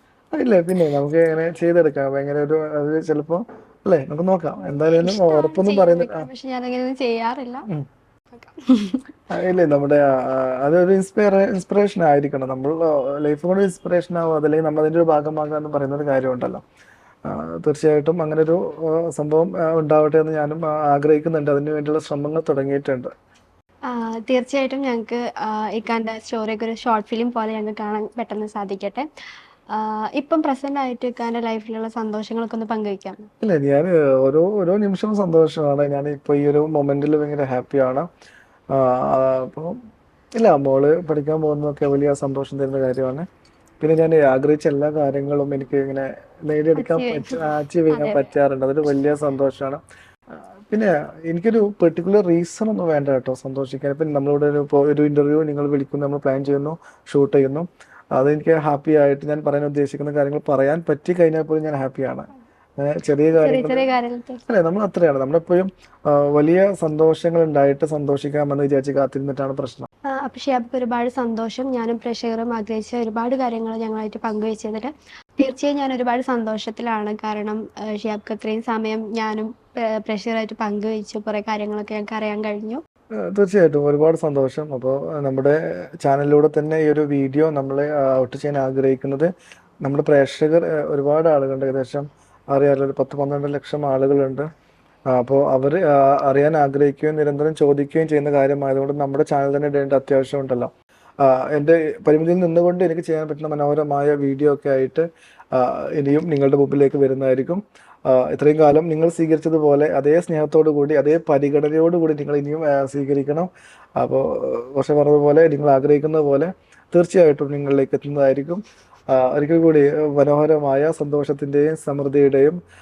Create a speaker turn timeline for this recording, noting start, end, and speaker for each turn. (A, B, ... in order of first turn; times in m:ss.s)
0:00.4-0:06.3 A
0:05.0-0:07.7 B
0:08.3-0:09.0 B
0:09.3-0:16.6 A
0:17.3-0:23.1 A
0:23.9-0:29.1 B
0:29.7-0:33.3 B
0:33.4-0:38.1 A
0:38.7-0:39.8 A
0:40.4-0:43.3 A
0:43.8-0:49.8 A
0:46.8-0:48.3 B
0:50.3-1:03.9 A
1:03.4-1:04.4 B
1:04.5-1:09.9 A
1:10.1-1:22.8 B
1:23.3-1:29.3 A
1:29.8-1:34.5 A
1:35.1-1:40.7 A
1:41.2-1:58.6 A
1:59.1-2:02.6 A